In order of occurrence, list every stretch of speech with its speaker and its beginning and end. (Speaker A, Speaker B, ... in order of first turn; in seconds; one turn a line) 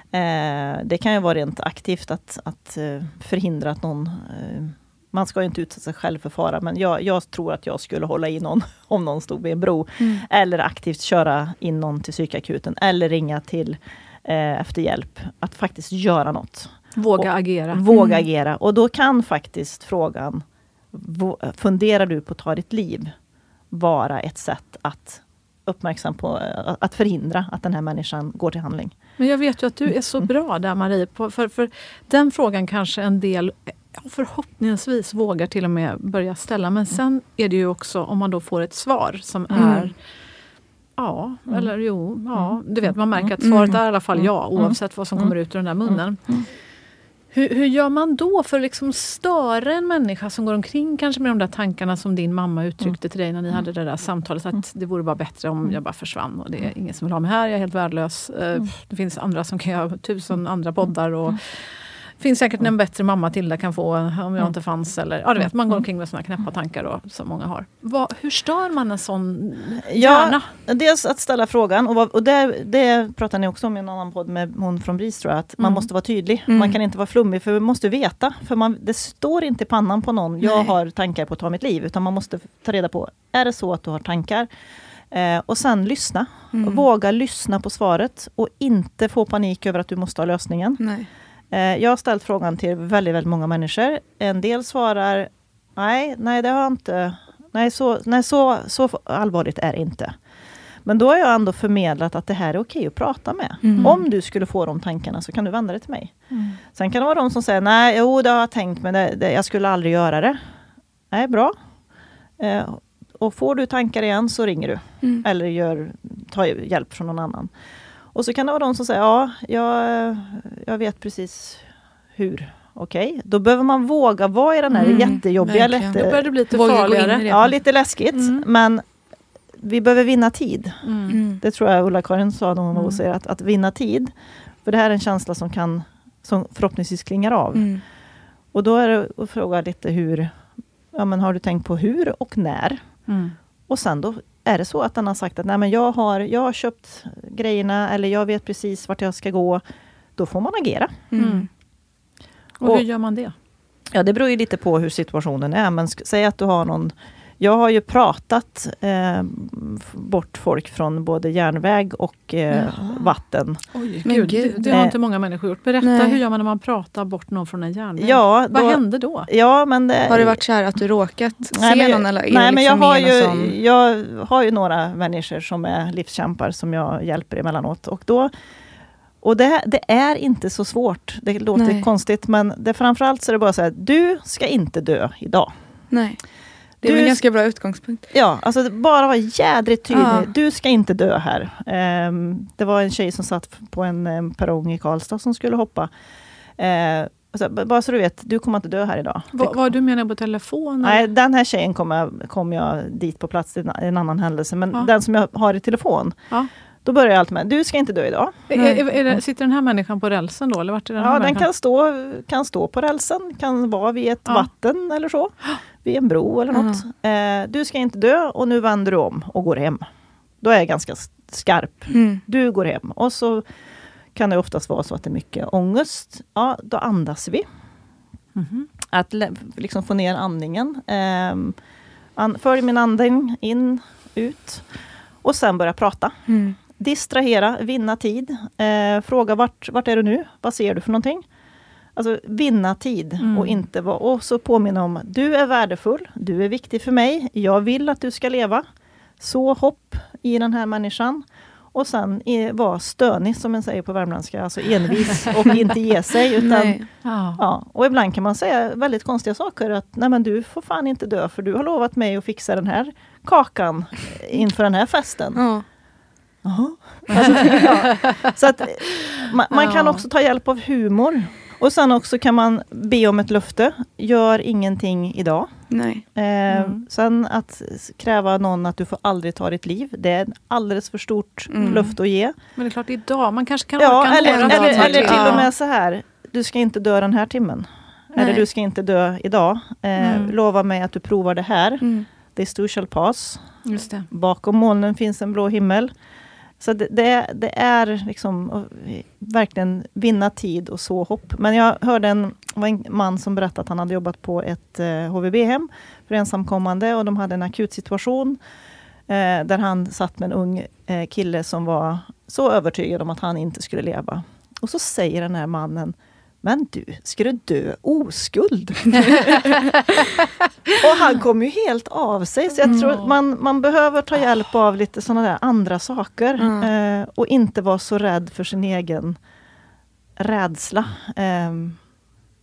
Speaker A: 0.1-23.1
Speaker B: 17.0-17.8
Speaker C: 17.9-18.2
Speaker A: 23.7-29.0
Speaker B: 29.2-39.9
Speaker C: 39.6-39.9
Speaker B: 41.0-46.3
Speaker C: 43.4-43.8
Speaker A: 44.2-45.3
Speaker A: 45.9-46.4
Speaker B: 47.3-70.5
Speaker A: 65.4-65.8
Speaker A: 69.8-84.5
Speaker C: 76.5-76.8
Speaker C: 80.4-80.7
Speaker A: 85.1-90.8
Speaker C: 86.5-86.8
Speaker C: 90.8-91.1
Speaker A: 91.5-100.1
Speaker A: 100.8-110.4
Speaker C: 103.6-104.0
Speaker B: 103.7-104.0
Speaker B: 106.3-106.6
Speaker A: 111.1-111.5
Speaker A: 112.4-117.5
Speaker A: 118.1-126.3
Speaker B: 124.7-127.6
Speaker C: 124.8-127.3
Speaker A: 127.3-128.8
Speaker B: 128.1-128.4
Speaker A: 129.6-130.8
Speaker B: 130.8-131.2
Speaker C: 131.1-131.4
Speaker A: 131.3-134.1
Speaker A: 134.7-137.7
Speaker C: 137.6-137.8
Speaker A: 138.5-140.4
Speaker A: 140.9-142.8
Speaker B: 143.1-143.4
Speaker A: 143.7-149.6
Speaker A: 150.2-151.1
Speaker C: 151.1-151.5
Speaker B: 151.2-151.5
Speaker B: 152.6-153.3
Speaker A: 153.9-163.6
Speaker C: 162.6-163.0
Speaker B: 163.7-169.3
Speaker C: 164.1-164.8
Speaker A: 164.7-165.0
Speaker C: 165.8-166.2
Speaker A: 168.0-170.4
Speaker C: 170.1-173.5
Speaker A: 171.5-178.3
Speaker A: 179.2-185.5
Speaker C: 181.6-181.9
Speaker C: 185.9-186.2
Speaker C: 186.8-188.1
Speaker A: 186.8-187.2
Speaker A: 188.1-195.9
Speaker C: 189.9-190.3
Speaker A: 196.6-199.6
Speaker B: 199.3-201.1
Speaker A: 200.8-206.2
Speaker A: 206.8-208.5
Speaker B: 208.5-211.5
Speaker A: 211.0-219.8
Speaker C: 216.5-216.8
Speaker A: 220.4-223.4
Speaker C: 221.9-222.2
Speaker A: 224.2-227.4
Speaker B: 228.4-228.7
Speaker A: 228.8-231.6
Speaker A: 232.2-234.7
Speaker A: 235.2-236.2
Speaker C: 236.3-236.6
Speaker A: 236.7-241.2
Speaker A: 242.0-248.7
Speaker B: 243.2-243.6
Speaker A: 249.2-265.4
Speaker C: 256.4-256.9
Speaker B: 257.0-257.4
Speaker C: 265.4-265.6
Speaker A: 266.4-275.5
Speaker B: 267.1-268.3
Speaker C: 267.2-267.7
Speaker B: 269.5-270.1
Speaker C: 275.7-276.0
Speaker A: 276.1-282.4
Speaker B: 276.5-276.9
Speaker C: 281.5-281.9
Speaker B: 281.6-281.9
Speaker B: 282.6-285.5
Speaker A: 283.8-293.4
Speaker C: 284.2-285.5
Speaker C: 288.2-288.5
Speaker C: 291.8-292.1
Speaker B: 293.6-294.1
Speaker A: 294.1-295.9
Speaker A: 296.6-308.4
Speaker A: 309.1-319.7
Speaker B: 319.1-319.6
Speaker A: 320.8-329.2
Speaker C: 322.6-322.9
Speaker B: 322.7-322.9
Speaker C: 326.4-326.7
Speaker A: 330.2-331.8